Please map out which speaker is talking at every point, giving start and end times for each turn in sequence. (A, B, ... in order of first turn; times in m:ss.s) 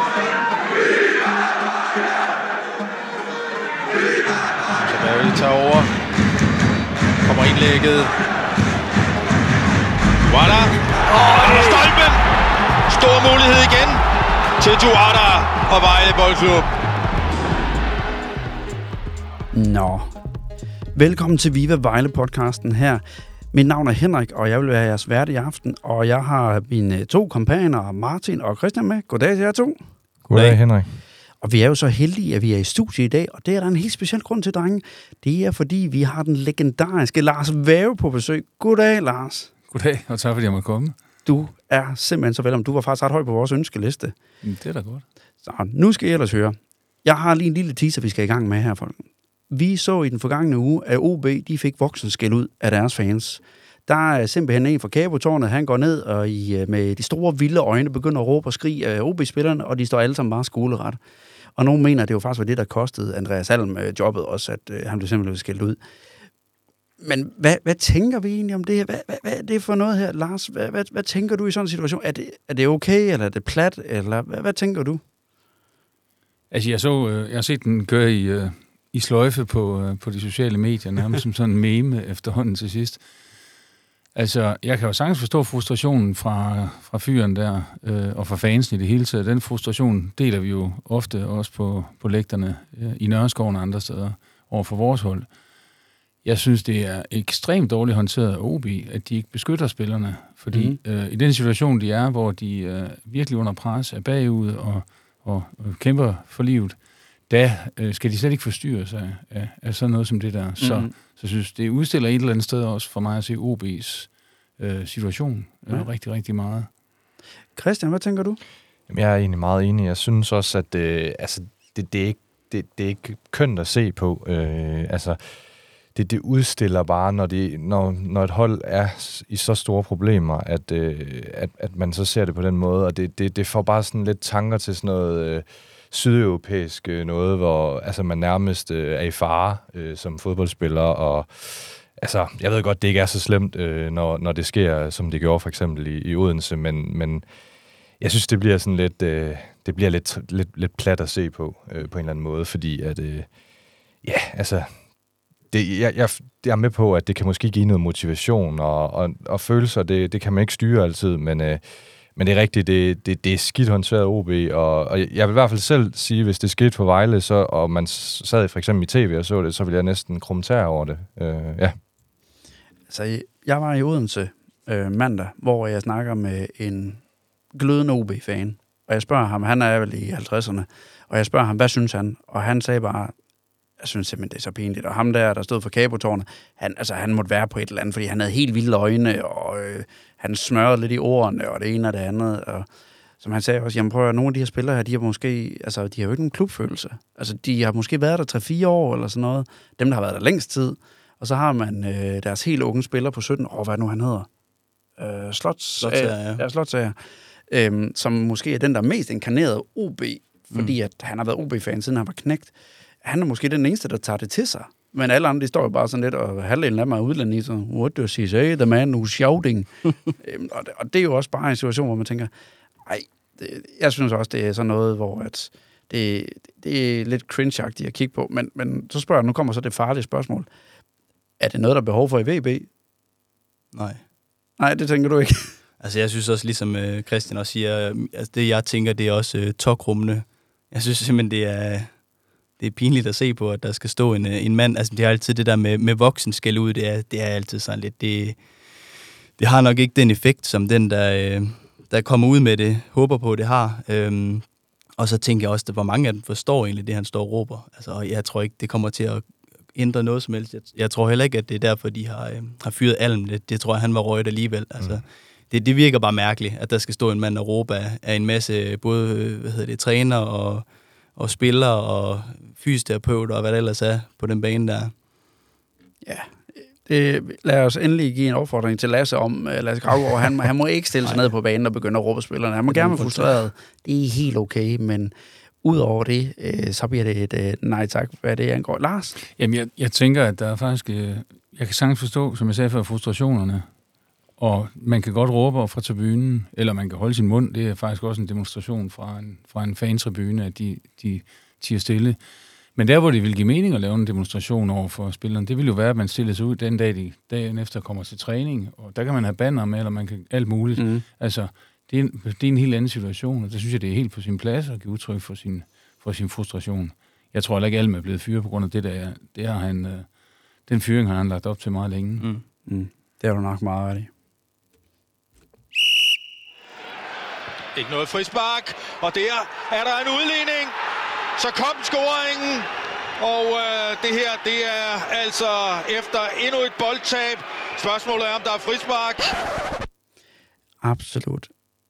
0:04.8-0:05.9 A
0:07.2-0:08.1 A
0:10.3-0:12.2 A
0:11.3-0:11.9 B
0:12.9-0:14.0 A
0:14.6-0:16.7 A
0:19.5-0:20.1 B
0:21.0-0:29.8 B
0:30.3-0:31.0 C
0:30.3-0:30.6 D
0:31.4-0:39.5 B
0:39.7-0:41.0 E
0:41.3-0:44.2 B
0:44.4-0:45.0 E
0:45.4-1:01.0 B
1:01.6-1:05.8 B
1:07.0-1:15.0 B
1:16.5-1:23.0 E
1:24.1-1:35.3 E
1:36.2-1:46.8 E
1:40.5-1:40.8 B
1:47.3-1:56.7 E
1:50.6-1:50.9 B
1:57.6-1:58.4 B
1:58.9-2:05.3 C
2:05.9-2:27.2 C
2:28.0-2:33.3 C
2:34.0-2:34.7 C
2:35.5-2:41.6 C
2:42.2-2:51.8 C
2:52.9-2:57.0 B
2:57.5-3:03.1 B
3:03.8-3:12.7 B
3:13.2-3:24.3 B
3:25.0-3:27.0 B
3:25.8-3:26.4 D
3:27.5-3:32.5 B
3:33.0-3:42.3 B
3:42.8-3:50.5 B
3:51.4-3:52.7 B
3:53.7-3:54.0 D
3:54.6-3:55.5 B
3:55.8-4:02.0 D
4:02.6-4:08.4 D
4:09.4-4:14.4 D
4:15.0-4:34.9 D
4:36.0-4:36.3 B
4:36.8-4:45.1 B
4:41.0-4:41.3 D
4:42.7-4:43.4 D
4:45.6-4:49.2 B
4:49.2-4:53.7 E
4:54.4-5:02.2 E
5:02.8-5:20.1 E
5:10.8-5:11.0 B
5:20.7-5:22.3 E
5:22.7-5:24.1 B
5:27.7-5:30.7 A
5:31.4-5:39.3 A
5:40.8-5:41.5 B